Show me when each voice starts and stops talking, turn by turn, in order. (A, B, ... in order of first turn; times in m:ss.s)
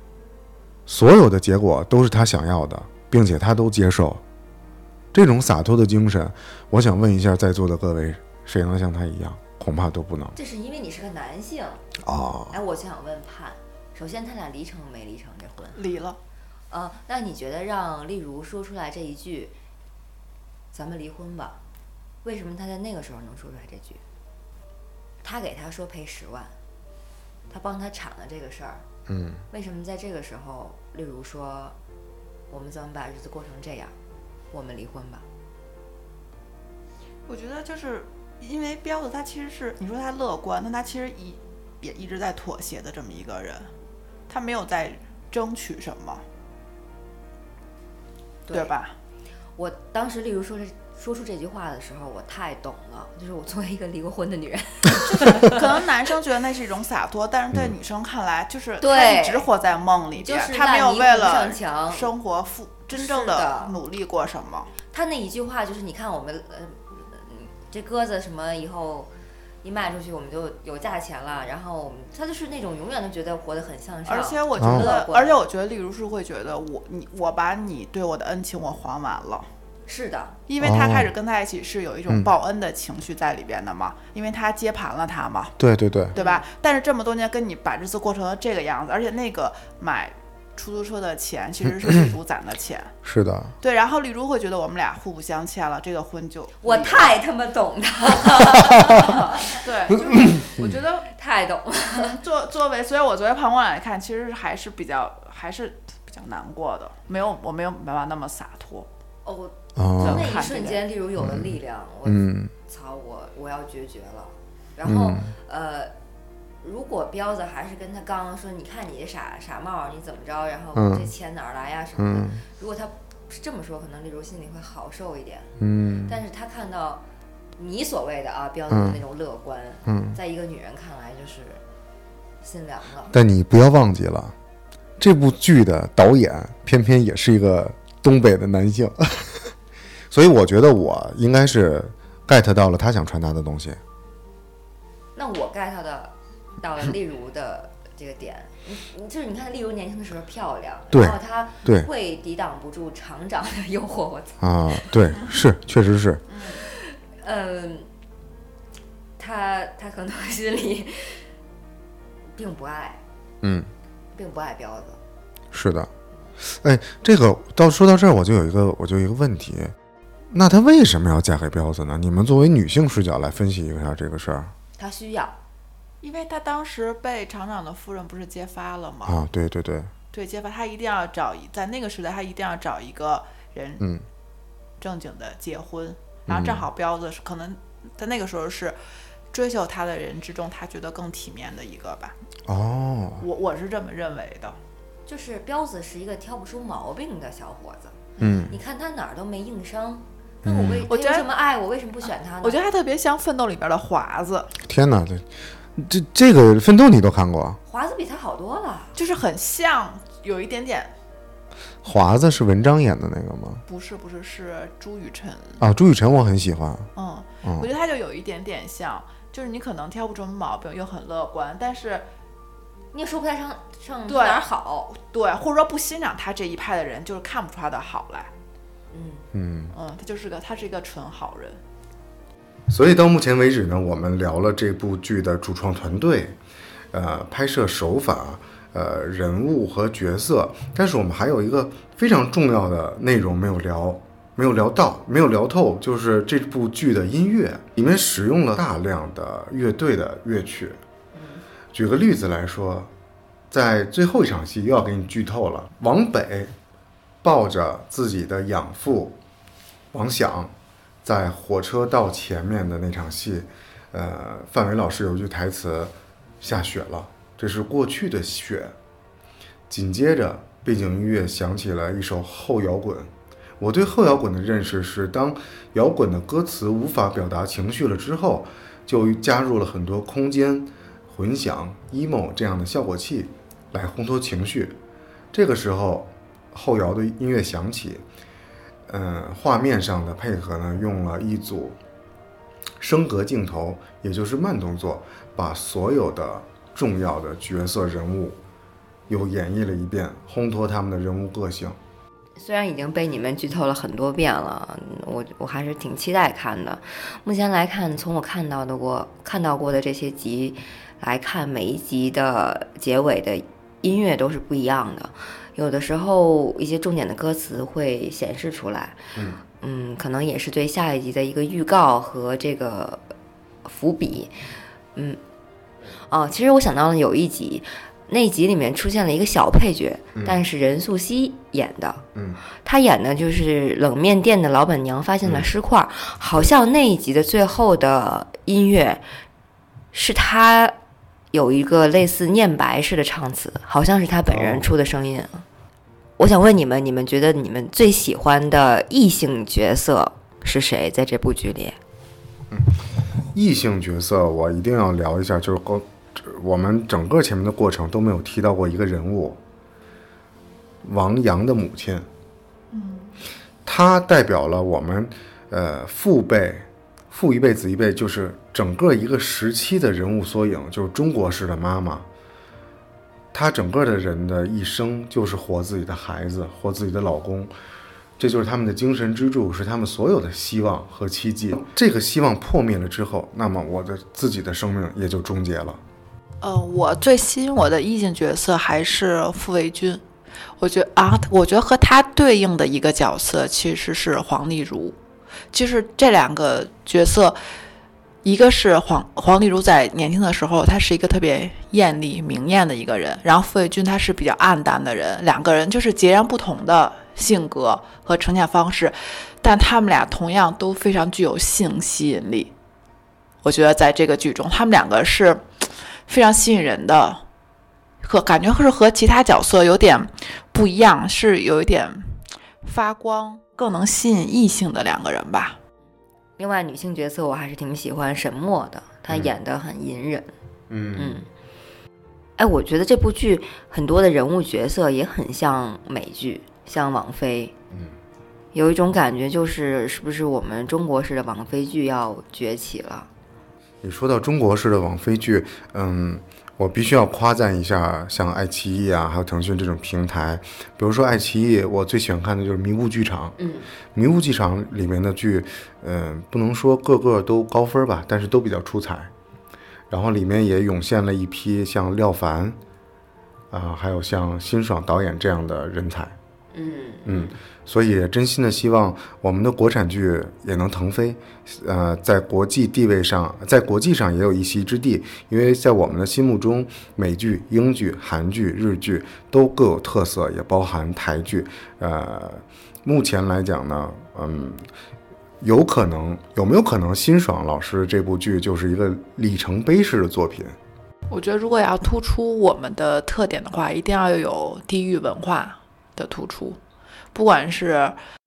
0:00.9-0:04.2 A
0:05.1-0:10.4 A
0:10.4-0:11.8 B
0:12.0-0:12.6 A
0:12.5-0:15.8 B
0:15.7-0:16.2 C
0:16.7-0:19.5 B
0:20.7-0:21.6 B
0:22.2-0:24.0 B
0:25.2-0:26.5 B
0:27.5-0:28.8 B
0:29.1-0:29.4 A
0:29.5-0:31.8 B
0:32.5-0:33.9 B
0:34.5-0:35.2 B
0:37.3-0:43.7 C
0:44.3-0:46.2 C
0:48.5-0:48.9 C
0:49.6-0:55.8 B
0:55.1-1:04.7 C
0:58.8-0:59.4 B
1:00.2-1:02.1 B
1:02.9-1:03.7 B
1:04.9-1:09.1 B
1:09.6-1:15.4 B
1:14.1-1:19.5 C
1:14.6-1:14.9 A
1:19.9-1:20.4 B
1:20.5-1:25.6 C
1:20.6-1:21.1 A
1:25.6-1:26.2 A
1:26.1-1:26.4 B
1:26.2-1:32.9 C
1:33.0-1:33.5 A
1:33.6-1:37.2 C
1:36.6-1:40.5 B
1:39.5-1:41.1 C
1:41.1-1:42.2 B
1:41.9-1:48.9 C
1:49.2-1:55.9 B
1:49.8-1:50.3 A
1:50.0-1:50.8 C
1:51.2-1:51.5 A
1:52.0-1:52.5 A
1:54.8-1:55.3 A
1:56.6-2:07.0 B
2:00.7-2:01.1 A
2:02.0-2:02.4 A
2:05.6-2:06.1 A
2:07.6-2:11.6 B
2:08.7-2:09.0 A
2:09.8-2:10.2 A
2:12.4-2:13.1 B
2:13.1-2:14.3 A
2:15.0-2:19.5 A
2:20.1-2:23.8 A
2:25.1-2:35.0 B
2:30.9-2:31.9 A
2:34.4-2:36.2 A
2:36.3-2:36.6 C
2:36.5-2:37.9 B
2:39.2-2:41.3 B
2:42.3-2:43.0 B
2:43.4-2:43.7 A
2:44.1-2:45.0 B
2:45.5-2:45.9 A
2:46.4-2:49.7 A
2:50.3-2:54.5 A
2:54.8-2:55.4 B
2:56.0-2:59.2 C
2:59.0-2:59.9 A
3:00.1-3:03.8 C
3:04.8-3:08.8 C
3:06.3-3:06.7 A
3:09.3-3:12.2 C
3:12.4-3:13.2 A
3:13.2-3:14.6 C
3:15.1-3:22.6 B
3:18.2-3:18.5 A
3:20.4-3:20.8 A
3:20.9-3:21.3 C
3:22.4-3:24.5 C
3:24.6-3:27.6 A
3:27.7-3:29.0 B
3:28.9-3:30.9 C
3:31.8-3:33.6 A
3:33.7-3:35.6 C
3:35.6-3:36.9 A
3:36.9-3:42.1 C
3:37.4-3:37.7 A
3:42.9-3:44.9 B
3:44.1-3:48.3 C
3:48.9-3:49.3 B
3:49.3-3:49.7 A
3:49.7-3:51.6 C
3:52.7-3:56.4 A
3:56.9-4:10.8 A
4:11.1-4:11.4 B
4:11.7-4:12.9 A
4:13.5-4:16.5 A
4:17.2-4:19.2 A
4:19.9-4:28.7 A
4:29.7-4:44.8 A
4:45.3-4:48.0 A
4:48.9-4:51.8 A
4:52.8-4:58.4 A
4:59.1-5:01.8 A
5:02.4-5:19.0 B
5:19.1-5:19.4 A
5:19.6-5:23.1 B
5:23.6-5:24.4 B
5:24.9-5:25.2 B
5:26.1-5:39.0 B
5:30.1-5:30.4 A
5:32.1-5:32.4 A
5:39.9-5:40.8 B
5:41.3-5:45.4 B
5:44.3-5:44.7 A
5:46.2-5:51.8 B
5:52.5-5:52.8 A
5:53.3-5:59.4 A
6:00.8-6:02.1 A
6:02.7-6:03.2 C
6:03.6-6:12.1 A
6:13.3-6:17.5 A
6:18.2-6:25.8 A
6:26.4-6:30.0 C
6:30.6-6:35.0 C
6:35.5-6:37.4 C
6:38.2-6:52.5 C
6:53.4-6:57.2 C
6:58.0-7:05.6 C
7:06.4-7:10.3 B
7:10.7-7:11.2 A
7:10.9-7:11.3 B
7:12.4-7:17.5 B
7:18.5-7:23.1 B
7:23.8-7:33.4 A
7:33.4-7:33.7 B
7:33.9-7:39.1 A
7:39.9-7:42.6 A
7:43.5-7:46.2 A
7:46.5-7:47.4 B
7:47.0-8:04.6 A
8:05.4-8:10.6 A
8:11.1-8:16.6 C
8:17.1-8:18.0 C